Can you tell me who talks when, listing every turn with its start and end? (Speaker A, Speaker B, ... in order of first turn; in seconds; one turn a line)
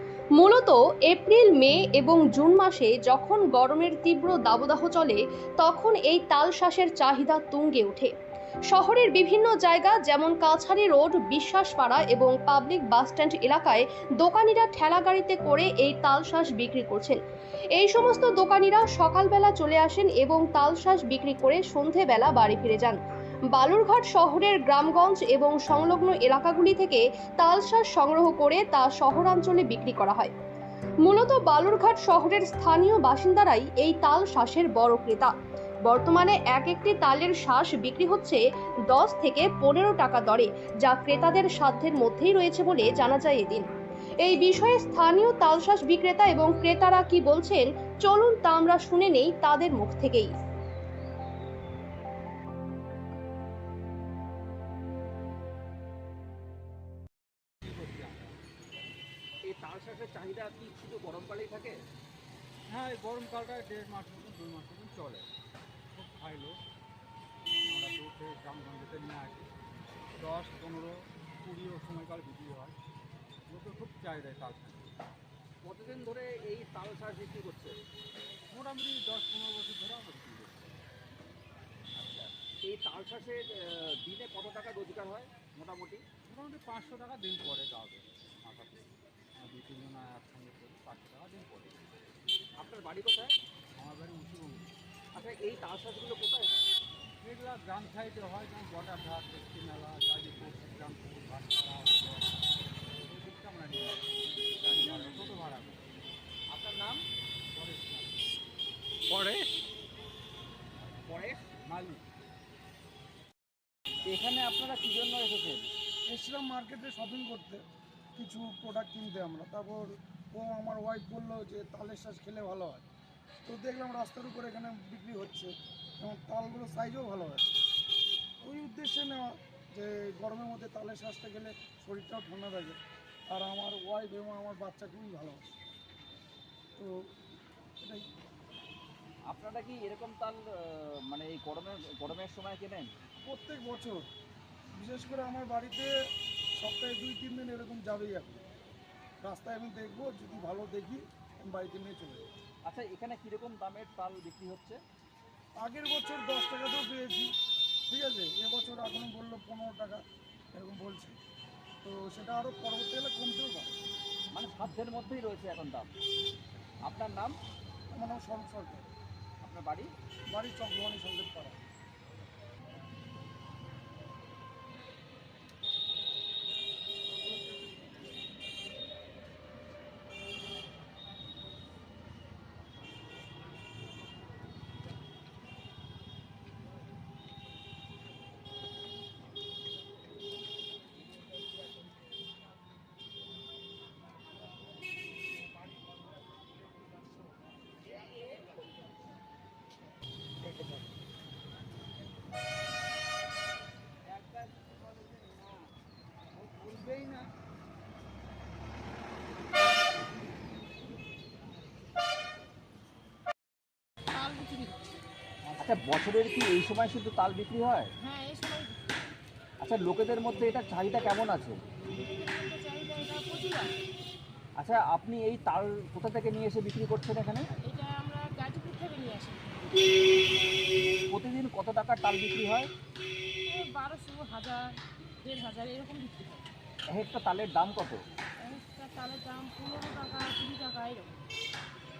Speaker A: 0.4-8.1
Speaker A: 8.7-17.2
Speaker A: 17.8-23.0
Speaker A: 23.5-30.3
Speaker A: 31.0-35.3
Speaker A: 35.9-43.7
Speaker A: 44.2-50.3
Speaker B: 57.6-58.4
Speaker C: 59.5-61.8
Speaker B: 62.7-65.3
Speaker B: 65.9-66.6
Speaker B: 67.7-69.5
Speaker B: 70.2-72.8
Speaker B: 73.5-74.9
Speaker C: 75.6-77.8
Speaker B: 78.5-80.8
Speaker C: 82.0-86.0
Speaker B: 86.3-91.8
Speaker C: 92.6-93.3
Speaker B: 93.8-94.7
Speaker C: 95.2-96.7
Speaker B: 97.2-105.8
Speaker C: 106.5-107.0
Speaker B: 107.5-108.1
Speaker B: 109.1-109.5
Speaker C: 111.1-111.5
Speaker B: 111.7-112.0
Speaker C: 114.1-115.7
Speaker D: 116.1-117.6
Speaker D: 118.2-122.9
Speaker D: 123.5-127.5
Speaker D: 128.4-132.8
Speaker D: 133.3-135.6
Speaker D: 137.8-138.1
Speaker C: 139.3-142.9
Speaker D: 143.3-144.1
Speaker D: 144.8-145.9
Speaker D: 146.6-148.4
Speaker D: 149.2-152.3
Speaker C: 152.7-154.8
Speaker D: 155.6-157.3
Speaker D: 157.9-160.0
Speaker D: 160.5-161.2
Speaker D: 161.8-163.8
Speaker C: 164.3-165.9
Speaker C: 166.9-167.3
Speaker D: 167.9-168.9
Speaker C: 169.4-169.9
Speaker D: 170.3-171.6
Speaker C: 200.5-200.8
Speaker C: 204.1-205.6
Speaker C: 206.3-207.3
Speaker E: 214.1-214.9
Speaker C: 215.6-217.9
Speaker E: 218.0-218.8
Speaker C: 219.6-221.6
Speaker E: 221.9-223.8
Speaker C: 224.6-227.5
Speaker E: 227.7-229.8
Speaker C: 231.1-232.7
Speaker E: 233.4-236.5
Speaker C: 236.9-238.0
Speaker E: 238.4-241.2